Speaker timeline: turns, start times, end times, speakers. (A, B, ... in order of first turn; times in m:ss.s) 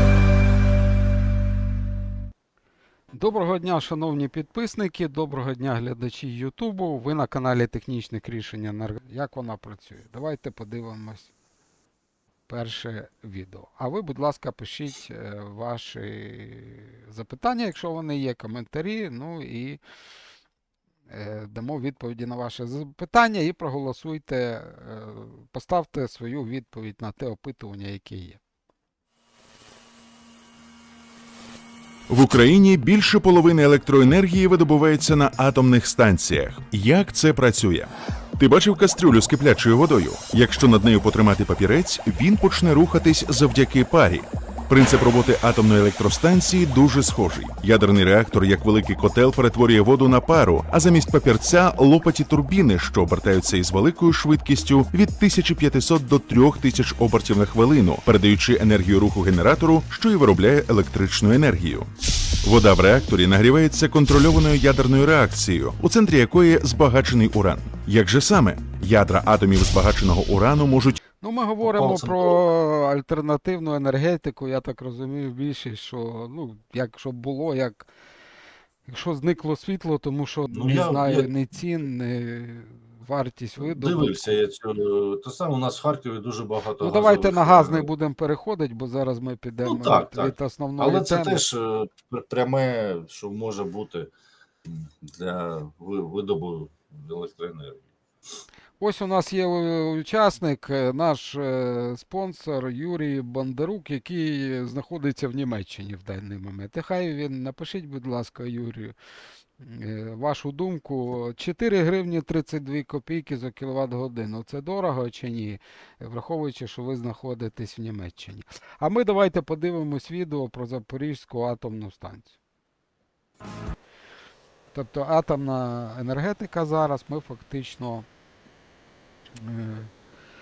0:03.1-0:11.3 A
0:12.5-0:19.8 A
0:21.1-0:28.4 A
0:32.1-1:01.9 B
1:02.4-1:11.0 B
1:11.2-1:17.9 A
1:11.6-1:12.4 C
1:18.9-1:24.4 A
1:20.5-1:21.3 C
1:23.6-1:27.9 C
1:26.8-1:31.4 A
1:29.6-1:34.1 C
1:34.7-1:37.9 C
1:38.8-1:49.0 A
1:49.6-2:02.4 A
2:04.7-2:08.0 A
2:09.4-2:09.9 A